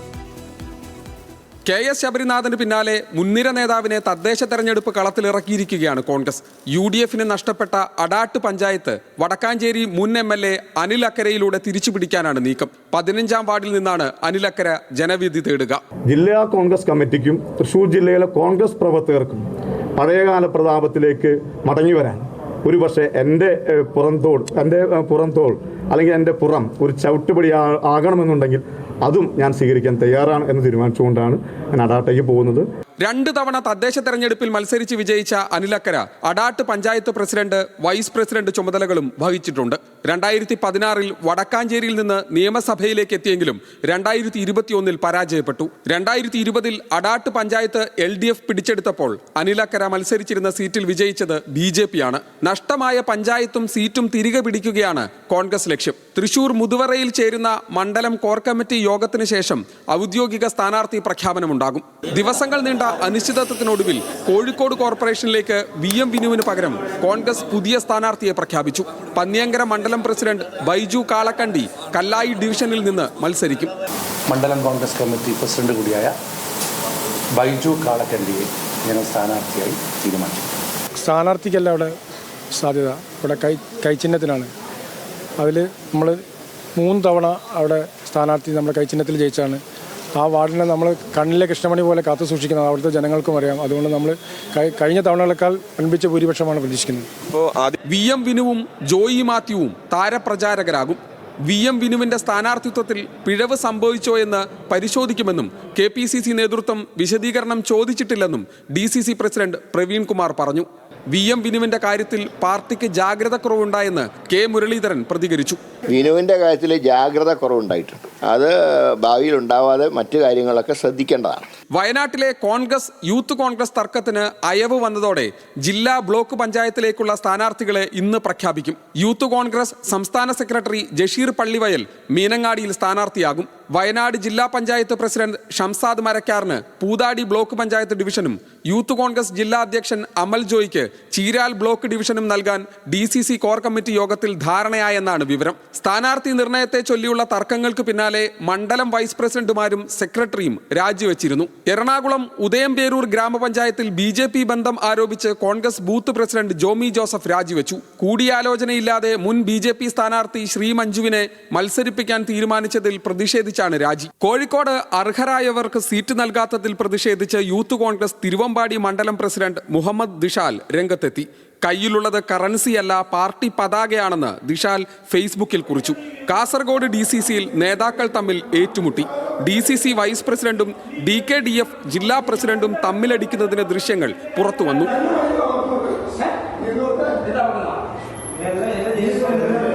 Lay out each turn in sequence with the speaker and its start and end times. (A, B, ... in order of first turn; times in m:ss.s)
0:01.7-0:15.8 A
0:16.1-0:19.4 B
0:20.0-0:32.7 B
0:33.0-1:13.7 A
1:14.3-1:16.2 C
1:17.4-1:20.5 C
1:21.0-1:22.0 D
1:22.5-1:24.5 D
1:25.4-1:26.2 D
1:26.8-1:29.6 D
1:30.2-1:37.1 D
1:37.8-1:55.6 A
1:55.9-2:01.4 E
2:01.7-3:04.9 A